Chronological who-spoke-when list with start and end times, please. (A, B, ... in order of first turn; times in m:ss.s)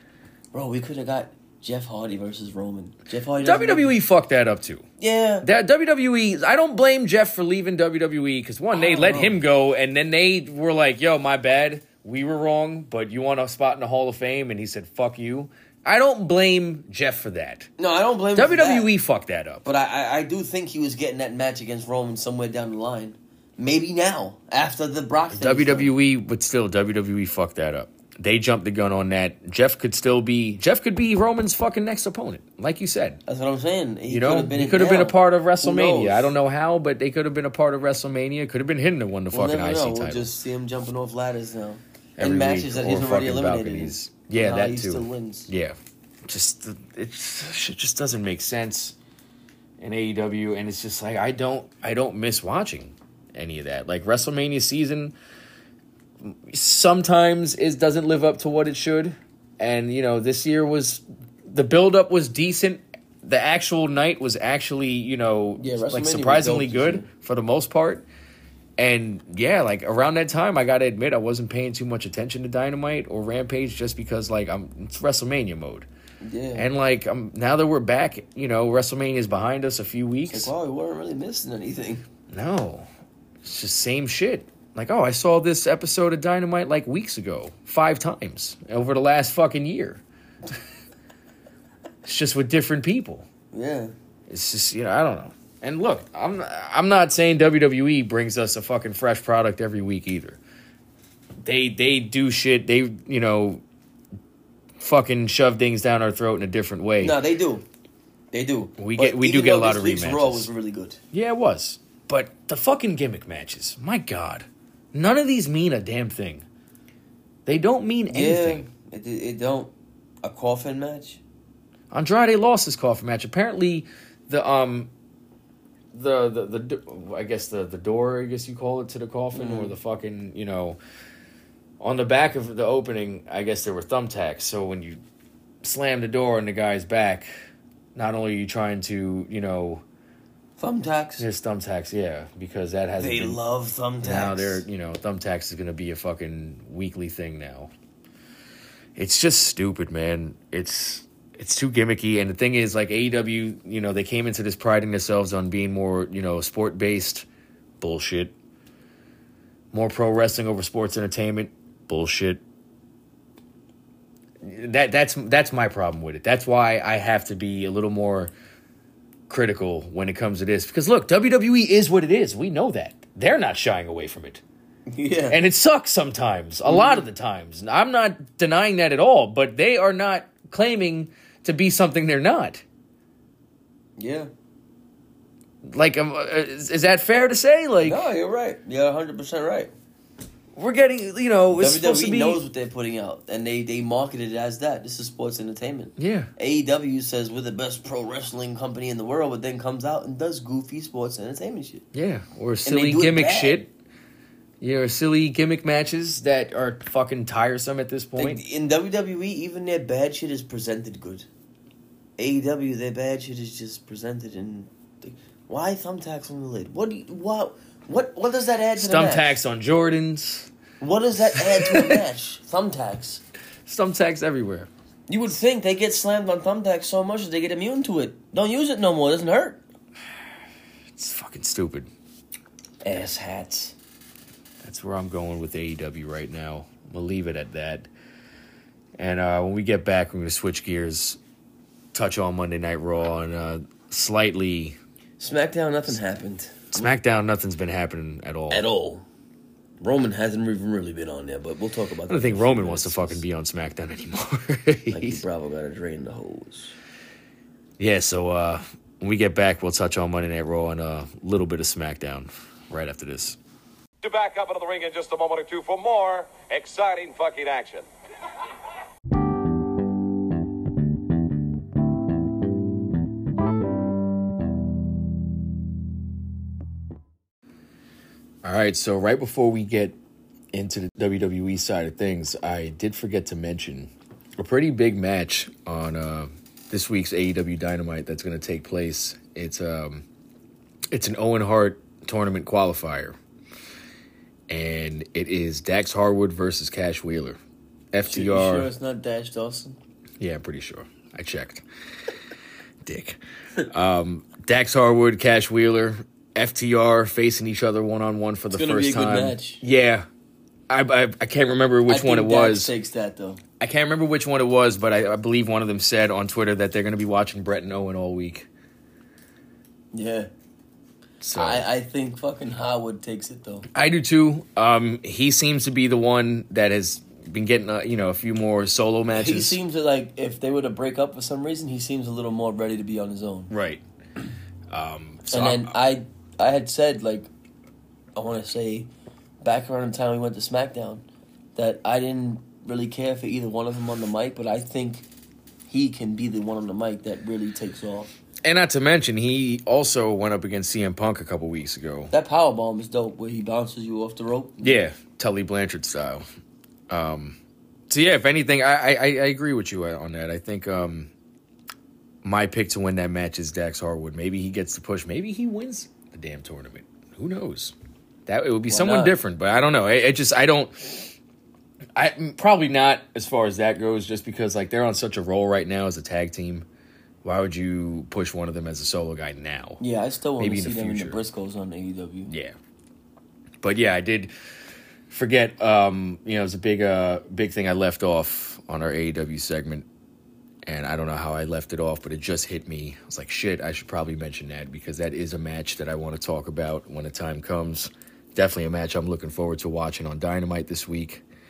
0:00.5-0:03.9 A
0:03.4-0:04.8 B
0:05.0-0:05.5 A
0:05.4-0:17.7 B
0:08.7-0:09.4 A
0:17.8-0:18.9 A
0:18.4-0:19.6 B
0:19.6-0:25.9 A
0:25.3-0:33.2 B
0:33.3-0:36.3 A
0:34.1-0:40.3 B
0:39.3-0:45.5 A
0:42.2-0:49.0 B
0:49.8-0:55.2 B
0:56.2-1:08.1 B
1:05.6-1:07.1 A
1:08.8-1:15.9 B
1:16.2-1:16.7 A
1:16.6-1:20.5 B
1:20.3-1:22.0 A
1:22.3-1:22.9 B
1:23.4-1:30.0 B
1:32.0-1:33.3 B
1:33.5-1:33.9 A
1:34.3-1:40.4 B
1:41.4-1:43.6 B
1:44.8-1:47.2 B
1:47.0-1:47.6 A
1:48.3-1:51.0 A
1:48.8-1:50.5 B
1:51.1-1:56.4 B
1:57.5-1:58.7 B
1:58.1-1:59.7 A
2:00.2-2:01.2 A
2:01.9-2:04.9 B
2:05.9-2:10.8 B
2:09.3-2:09.8 A
2:11.8-2:15.0 B
2:15.6-2:17.3 B
2:18.0-2:19.8 B
2:20.6-2:21.3 A
2:21.2-2:23.4 B
2:23.0-2:24.6 A
2:24.0-2:27.7 B
2:29.0-2:37.3 B
2:37.8-2:38.4 B
2:39.7-2:42.4 B
2:44.4-2:48.3 B
2:49.3-2:54.4 B
2:54.9-2:55.4 A
2:55.3-3:02.6 B
2:56.7-2:57.0 A
3:04.0-3:04.3 A
3:05.6-3:08.0 B
3:07.8-3:09.7 A
3:10.6-3:12.4 B
3:11.5-3:21.8 A
3:16.0-3:16.3 B
3:21.9-3:23.7 B
3:22.6-3:23.6 A
3:24.6-3:28.4 B
3:28.2-3:31.3 A
3:32.2-3:39.4 A
3:38.8-3:40.5 B
3:40.8-3:43.2 A
3:41.4-3:42.0 B
3:43.7-3:44.7 B
3:45.1-3:49.6 A
3:50.9-3:51.9 B
3:52.8-3:53.8 A
3:54.6-3:57.9 B
3:59.0-4:01.2 B
4:01.9-4:04.8 B
4:05.2-4:06.9 A
4:06.7-4:08.6 B
4:08.5-4:09.0 A
4:09.8-4:13.2 A
4:12.1-4:15.2 B
4:14.9-4:16.8 A
4:17.8-4:23.4 B
4:24.0-4:27.8 C
4:26.3-4:26.8 B
4:38.4-4:40.0 B
4:40.5-4:50.0 B
4:50.9-4:53.2 B
4:54.5-4:57.4 B
4:57.9-4:58.7 B
4:58.1-4:59.8 A
5:00.2-5:01.6 B
5:02.8-5:10.1 B
5:08.5-5:09.6 A
5:10.7-5:12.7 B
5:11.9-5:13.4 A
5:13.6-5:18.5 B
5:19.9-5:20.3 A
5:21.2-5:21.7 B
5:21.4-5:23.7 A
5:23.7-5:29.6 B
5:29.1-5:33.5 A
5:33.5-5:33.8 B
5:34.7-5:35.7 B
5:35.3-5:37.3 A
5:38.2-5:38.9 A
5:39.4-5:41.0 A
5:41.6-5:45.1 A
5:45.7-5:48.1 A
5:48.4-5:52.1 B
5:52.1-5:54.8 A
5:54.6-5:56.2 B
5:56.9-5:57.4 B
5:57.9-6:01.1 B
6:02.2-6:07.8 B
6:08.3-6:11.1 B
6:08.7-6:09.2 A
6:12.0-6:16.7 B
6:17.2-6:19.8 B
6:19.8-6:22.3 A
6:20.4-6:21.2 B
6:22.3-6:22.6 B
6:23.6-6:24.3 B
6:25.1-6:29.9 B
6:30.7-6:41.2 B